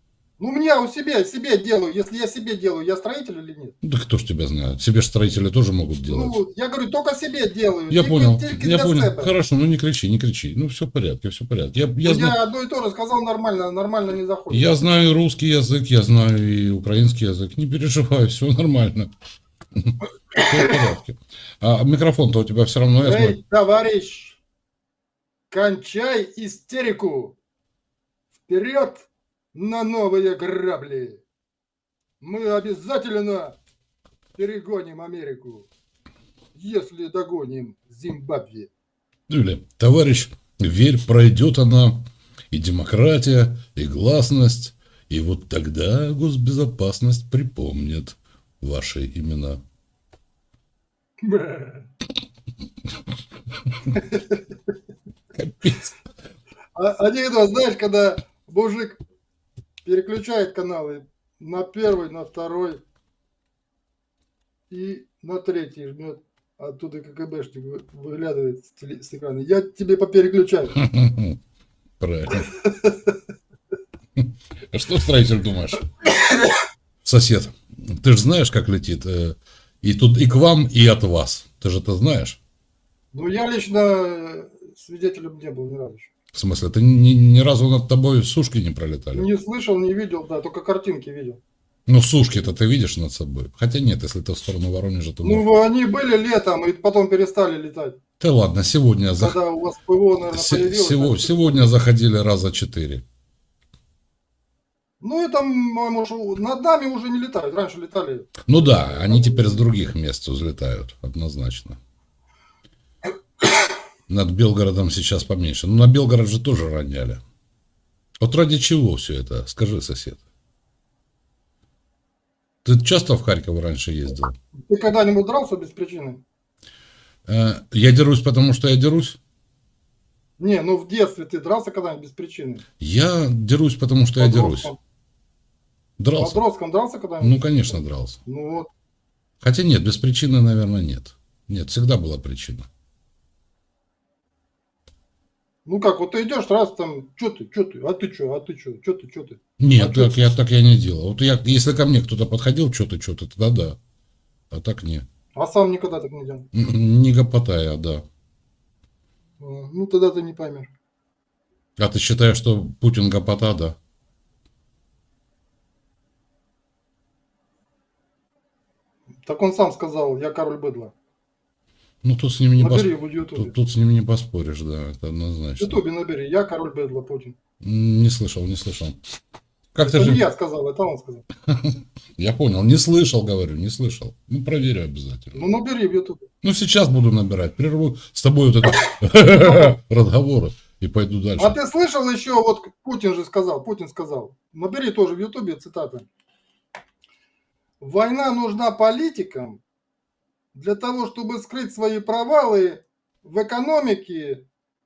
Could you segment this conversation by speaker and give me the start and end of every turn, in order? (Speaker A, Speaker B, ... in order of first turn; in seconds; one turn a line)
Speaker A: 0.4-3.8
Speaker B: 3.8-6.4
Speaker A: 6.1-9.3
Speaker B: 7.9-12.4
Speaker A: 12.0-14.8
Speaker B: 14.5-19.1
Speaker B: 19.8-23.4
Speaker A: 23.0-24.4
Speaker A: 25.5-27.4
Speaker A: 28.5-31.2
Speaker A: 32.2-33.6
Speaker A: 34.4-35.7
Speaker A: 36.5-38.7
Speaker B: 39.3-49.6
Speaker A: 51.2-51.9
Speaker A: 54.0-54.4
Speaker B: 55.4-56.0
Speaker A: 56.8-59.0
Speaker A: 59.9-62.8
Speaker A: 64.7-70.7
Speaker B: 70.8-71.4
Speaker B: 72.0-72.5
Speaker A: 72.5-73.1
Speaker B: 74.2-75.9
Speaker B: 77.0-82.4
Speaker A: 83.1-86.1
Speaker B: 86.3-89.3
Speaker A: 89.1-91.4
Speaker B: 91.9-95.5
Speaker A: 95.2-98.0
Speaker B: 98.2-99.4
Speaker A: 99.2-101.7
Speaker B: 100.2-103.0
Speaker A: 105.0-109.7
Speaker B: 108.4-111.8
Speaker B: 114.1-117.2
Speaker B: 118.2-120.2
Speaker B: 122.6-124.3
Speaker A: 124.7-126.2
Speaker B: 127.3-129.2
Speaker A: 130.4-132.6
Speaker B: 132.8-134.7
Speaker A: 134.2-134.8
Speaker B: 136.0-136.4
Speaker A: 136.2-138.7
Speaker B: 137.2-138.2
Speaker B: 139.4-142.7
Speaker A: 145.7-150.4
Speaker B: 149.6-153.8
Speaker B: 154.5-155.1
Speaker A: 155.3-156.5
Speaker B: 156.5-158.1
Speaker A: 159.4-160.7
Speaker B: 161.8-163.8
Speaker A: 169.2-170.9
Speaker B: 172.0-175.8
Speaker A: 172.6-173.5
Speaker A: 175.6-177.3
Speaker B: 177.6-179.0
Speaker B: 179.8-180.2
Speaker A: 179.8-181.2
Speaker B: 181.5-185.4
Speaker A: 185.3-186.2
Speaker B: 186.4-191.6
Speaker A: 189.4-189.7
Speaker A: 191.4-196.1
Speaker A: 197.8-199.6
Speaker A: 200.5-204.4